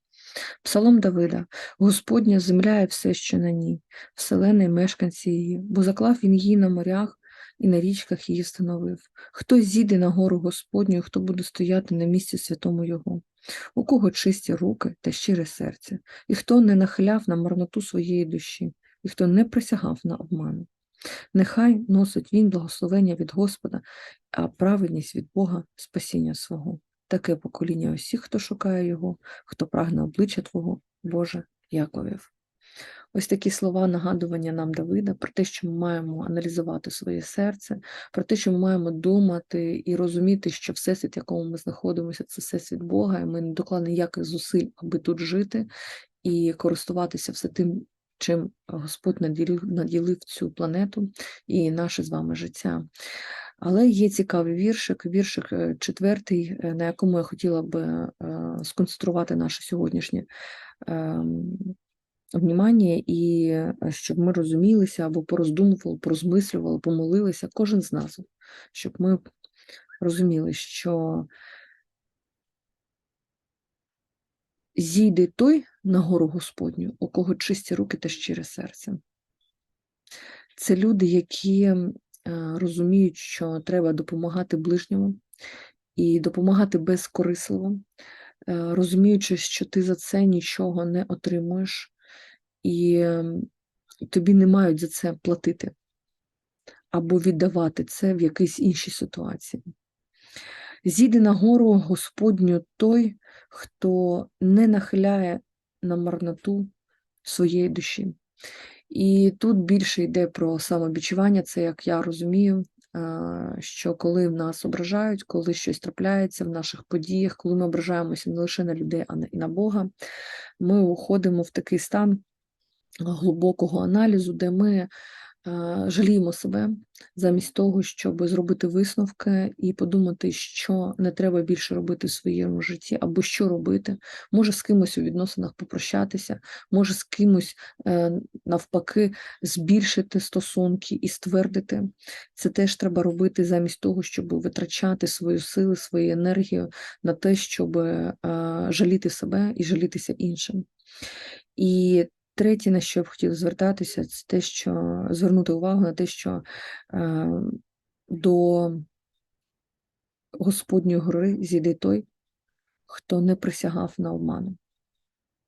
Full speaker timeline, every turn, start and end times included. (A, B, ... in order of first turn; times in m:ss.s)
0:00.6-0:13.2 A
0:13.7-0:20.7 A
0:21.3-0:32.3 A
0:33.1-0:45.7 A
0:46.2-0:52.8 A
0:53.6-1:00.3 A
1:00.8-1:01.7 A
1:02.3-1:09.2 A
1:10.0-1:11.3 A
1:14.7-1:19.0 A
1:20.6-1:25.2 A
1:26.0-1:27.8 A
1:28.5-1:31.9 A
1:32.6-1:33.5 A
1:34.0-1:35.7 A
1:36.9-1:39.6 A
1:40.8-1:46.7 A
1:47.2-1:48.1 A
1:48.9-1:59.9 A
2:00.6-2:02.2 A
2:03.0-2:04.9 A
2:05.4-2:30.6 A
2:31.6-2:37.6 A
2:38.1-2:38.8 A
2:40.4-2:42.0 A
2:42.9-2:44.6 A